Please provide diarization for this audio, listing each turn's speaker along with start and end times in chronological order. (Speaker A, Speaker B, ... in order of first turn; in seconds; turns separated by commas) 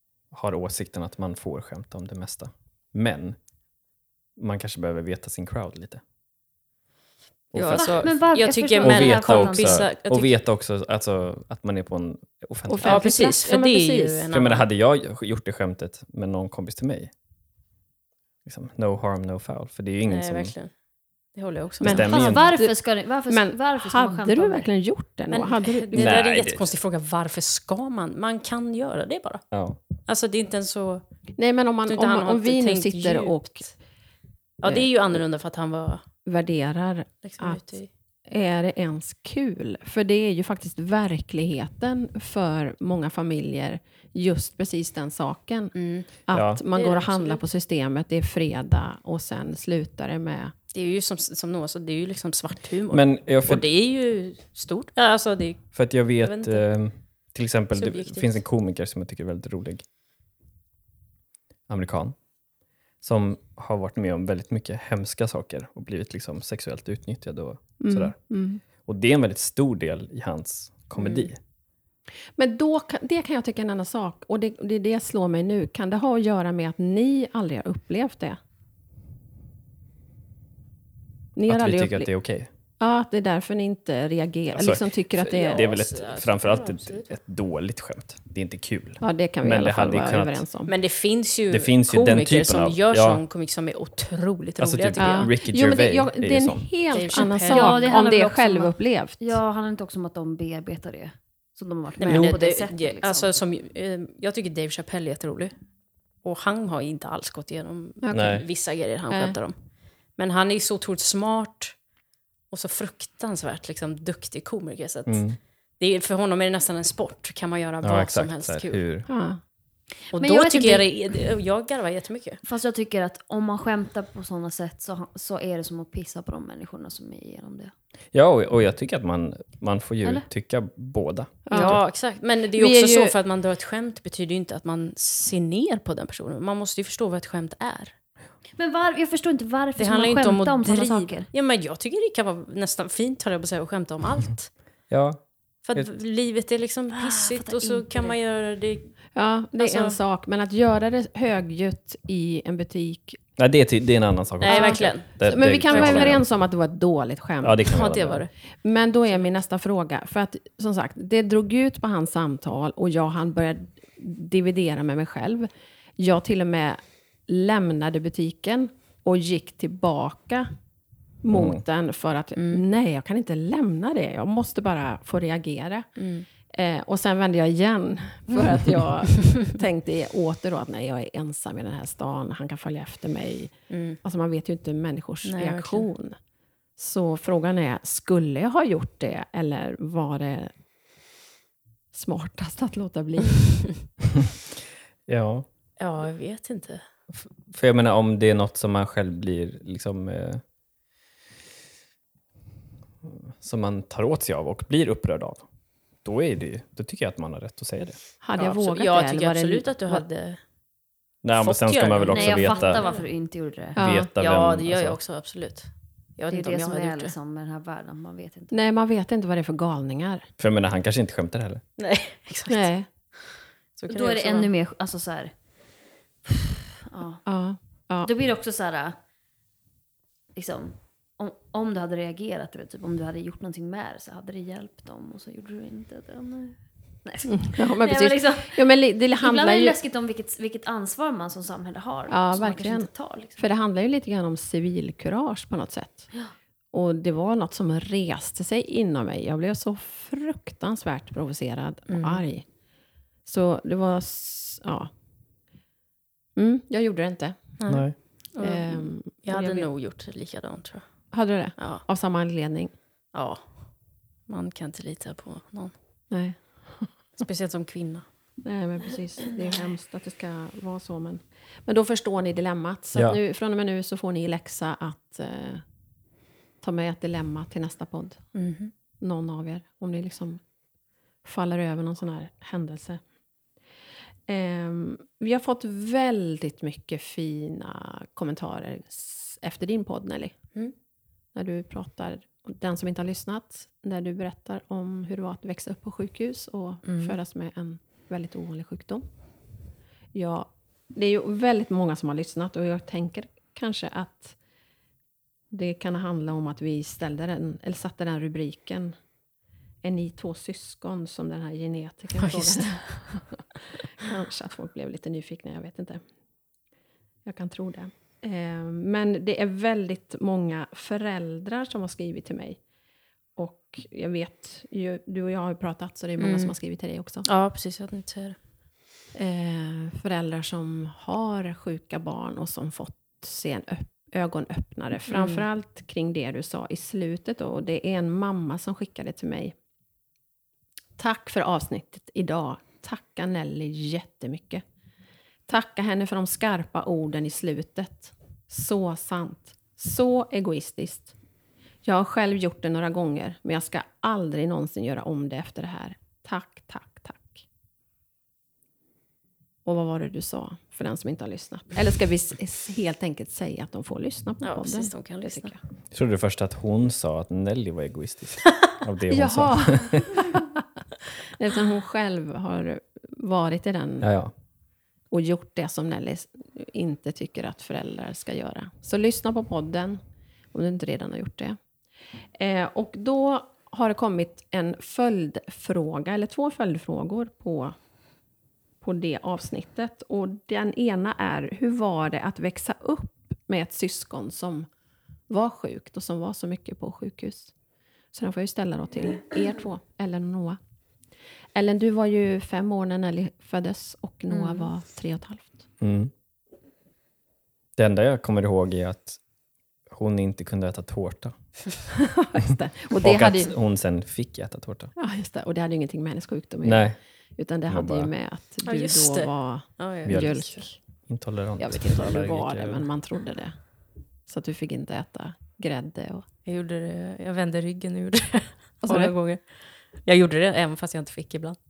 Speaker A: 0.3-3.4, Speaker A: 4.4-6.0, Speaker A: 7.5-8.0, Speaker B: 7.5-10.3, Speaker C: 7.5-9.9, Speaker A: 8.8-13.1, Speaker D: 12.7-14.2, Speaker B: 12.8-14.7, Speaker A: 14.3-17.1, Speaker A: 18.4-20.5, Speaker B: 20.1-20.7, Speaker B: 21.3-22.1, Speaker A: 21.8-22.5, Speaker D: 21.8-22.7, Speaker C: 21.9-24.7, Speaker D: 23.3-26.2, Speaker B: 25.3-29.4, Speaker A: 25.9-26.7, Speaker A: 29.5-29.8, Speaker B: 30.0-31.0, Speaker D: 31.4-33.7, Speaker B: 31.9-33.7, Speaker B: 34.6-36.0, Speaker D: 36.2-37.6, Speaker B: 37.2-37.9, Speaker D: 38.3-50.5, Speaker B: 45.7-46.1, Speaker A: 46.3-46.6, Speaker B: 46.7-47.4, Speaker B: 50.7-56.6, Speaker A: 52.9-53.6, Speaker A: 55.7-59.8, Speaker B: 57.7-58.3, Speaker A: 61.7-62.1, Speaker A: 63.0-68.2, Speaker D: 67.8-68.6, Speaker A: 68.8-71.4, Speaker B: 71.0-71.3, Speaker D: 72.3-78.4, Speaker D: 81.3-82.1, Speaker A: 81.5-82.5, Speaker D: 82.8-85.7, Speaker A: 84.6-90.4, Speaker B: 85.2-87.1, Speaker D: 89.0-90.7, Speaker B: 90.7-95.3, Speaker A: 91.5-93.2, Speaker A: 94.6-96.7, Speaker D: 95.0-99.3, Speaker C: 96.9-103.3, Speaker B: 96.9-97.9, Speaker B: 102.0-105.5, Speaker B: 106.2-109.5, Speaker D: 108.0-108.4, Speaker A: 108.1-108.4, Speaker D: 109.1-109.4, Speaker B: 110.2-111.8, Speaker B: 112.5-115.2, Speaker A: 115.1-115.4, Speaker B: 115.8-118.8, Speaker A: 117.8-119.1, Speaker D: 119.0-119.4, Speaker C: 120.1-120.9, Speaker B: 120.1-122.4, Speaker C: 122.4-127.7, Speaker A: 128.1-131.8, Speaker D: 131.4-131.8, Speaker B: 131.5-137.9, Speaker D: 132.5-133.1, Speaker C: 138.6-141.3, Speaker B: 139.8-144.5, Speaker A: 144.9-145.2, Speaker B: 145.6-148.9, Speaker C: 146.9-148.2, Speaker D: 149.1-153.2, Speaker B: 149.6-150.0, Speaker A: 153.4-156.2, Speaker B: 154.4-156.2, Speaker C: 154.4-154.8, Speaker D: 155.2-157.8, Speaker A: 157.4-158.2, Speaker B: 157.7-158.3, Speaker D: 158.6-170.5, Speaker D: 171.2-175.9, Speaker A: 171.3-171.6, Speaker B: 172.3-172.6, Speaker B: 176.0-176.3, Speaker D: 176.5-186.2, Speaker B: 183.7-184.0, Speaker B: 185.2-185.9, Speaker D: 186.8-190.5, Speaker D: 191.9-193.6, Speaker A: 195.1-195.5, Speaker B: 195.8-196.8, Speaker A: 197.4-200.4, Speaker A: 203.0-205.4, Speaker A: 206.0-207.9, Speaker D: 208.2-210.0, Speaker B: 208.3-210.4, Speaker A: 211.2-212.8, Speaker B: 211.4-213.1, Speaker C: 212.1-213.8, Speaker D: 213.8-214.1, Speaker A: 213.8-215.0, Speaker B: 214.0-217.1, Speaker C: 216.3-218.5, Speaker D: 218.5-220.2, Speaker A: 220.4-221.6, Speaker B: 221.8-222.7, Speaker D: 222.5-222.9, Speaker B: 223.8-224.5, Speaker C: 223.9-225.3, Speaker C: 226.2-227.2, Speaker D: 227.2-228.1, Speaker C: 228.0-228.9, Speaker C: 230.3-238.6, Speaker D: 237.2-239.8, Speaker C: 239.2-243.4, Speaker D: 242.1-246.1, Speaker D: 246.7-252.4, Speaker B: 251.9-252.2, Speaker D: 253.2-254.9, Speaker D: 256.4-257.6, Speaker B: 257.6-260.9, Speaker A: 257.7-257.9, Speaker D: 258.4-259.7, Speaker D: 261.1-262.7, Speaker B: 261.6-261.8, Speaker B: 263.1-263.7, Speaker B: 264.3-265.7, Speaker D: 266.1-266.9, Speaker B: 267.2-268.1, Speaker D: 268.4-275.6, Speaker D: 276.6-278.2, Speaker B: 278.3-278.7, Speaker D: 279.0-280.4, Speaker D: 281.2-283.0, Speaker D: 284.3-290.4, Speaker D: 291.3-299.1, Speaker B: 296.8-297.2, Speaker D: 300.1-304.4, Speaker D: 305.5-308.9, Speaker D: 309.8-316.0, Speaker B: 312.2-313.2, Speaker D: 317.2-322.6, Speaker D: 323.4-327.2, Speaker B: 326.2-326.5, Speaker B: 327.2-328.4, Speaker D: 329.1-339.5, Speaker B: 335.1-335.4, Speaker D: 341.0-344.6, Speaker D: 345.5-351.1, Speaker D: 351.8-357.4, Speaker D: 359.6-365.6, Speaker B: 364.4-365.5, Speaker A: 365.9-370.2, Speaker D: 369.1-370.4, Speaker D: 371.3-374.1, Speaker A: 374.0-374.3, Speaker D: 375.1-380.0, Speaker D: 380.5-381.6, Speaker D: 382.4-387.7, Speaker D: 388.8-394.7, Speaker D: 395.3-397.5, Speaker D: 398.1-400.6, Speaker D: 401.5-405.6, Speaker C: 404.3-404.7, Speaker A: 405.8-406.1, Speaker A: 407.8-409.2, Speaker A: 409.9-411.3, Speaker D: 412.0-413.5, Speaker A: 412.9-414.9, Speaker D: 414.9-420.8, Speaker A: 416.6-417.0, Speaker A: 417.7-418.1, Speaker B: 418.6-420.4, Speaker A: 420.0-422.9, Speaker D: 421.6-423.6, Speaker D: 424.3-426.2, Speaker B: 426.4-431.6, Speaker D: 428.8-429.1